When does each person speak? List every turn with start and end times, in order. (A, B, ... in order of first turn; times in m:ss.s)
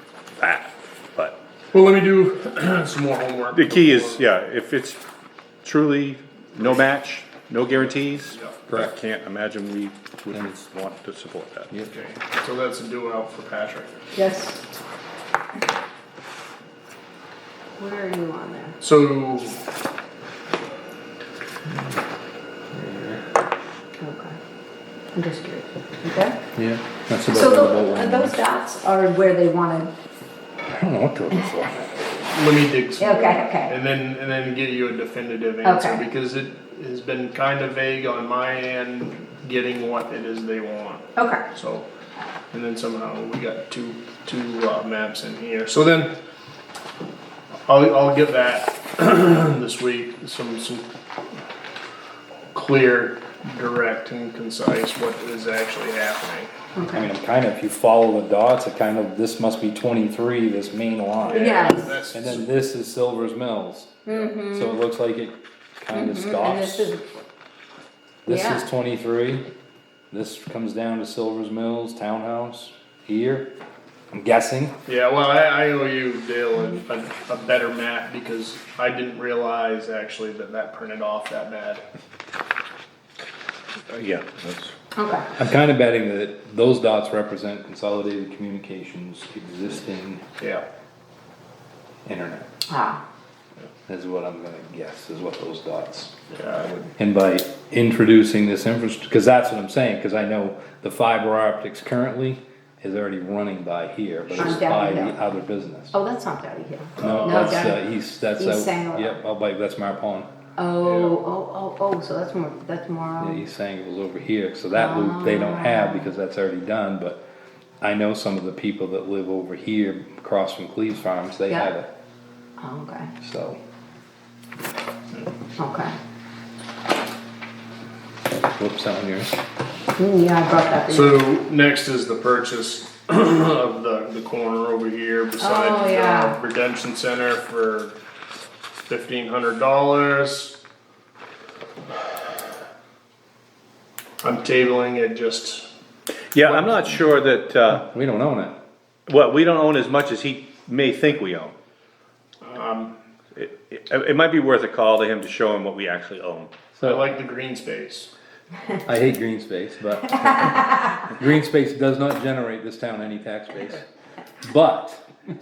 0:00.4-0:01.4 A
0:01.7-0:04.3 B
0:03.5-0:05.0 A
0:05.6-0:11.7 A
0:07.7-0:08.6 B
0:11.9-0:13.9 B
0:14.1-0:14.6 C
0:17.8-0:18.8 C
0:18.8-0:19.6 B
0:22.7-0:23.2 D
0:24.0-0:24.4 C
0:25.1-0:26.4 C
0:26.6-0:28.4 D
0:27.3-0:29.9 C
0:30.7-0:32.1 D
0:32.2-0:41.9 B
0:33.0-0:33.8 C
0:35.6-0:36.1 C
0:41.2-0:41.4 C
0:42.5-0:46.2 B
0:47.7-0:50.9 B
0:52.5-0:56.5 B
0:56.8-0:57.1 C
0:56.9-1:06.9 D
1:01.2-1:02.5 B
1:01.3-1:02.0 C
1:04.1-1:04.8 C
1:05.9-1:07.2 C
1:08.2-1:09.5 D
1:08.3-1:08.7 C
1:10.1-1:13.5 D
1:14.1-1:14.8 D
1:14.9-1:21.8 B
1:23.9-1:24.7 A
1:25.0-1:25.3 C
1:25.4-1:30.2 D
1:30.4-1:30.7 B
1:32.0-1:32.5 D
1:32.7-1:33.0 C
1:33.9-1:36.1 D
1:36.3-1:36.8 B
1:37.0-1:46.0 D
1:44.4-1:45.2 C
1:45.9-1:47.8 C
1:47.0-1:50.3 D
1:47.0-1:47.4 B
1:48.4-1:49.2 C
1:50.6-1:53.4 C
1:50.8-1:51.2 B
1:53.2-1:57.2 D
1:54.7-1:56.1 C
1:57.8-2:01.9 D
2:02.6-2:03.1 C
2:03.2-2:03.6 D
2:05.6-2:05.9 C
2:08.6-2:09.3 D
2:10.0-2:11.2 C
2:10.9-2:18.0 B
2:15.4-2:16.4 C
2:18.9-2:20.6 B
2:24.2-2:25.7 B
2:26.3-2:27.8 A
2:26.4-2:27.2 D
2:27.7-2:28.6 D
2:29.1-2:31.5 A
2:32.4-2:33.0 B
2:33.4-2:36.7 A
2:36.8-2:37.2 D
2:36.8-2:38.1 B
2:38.8-2:43.8 D
2:44.4-2:45.0 D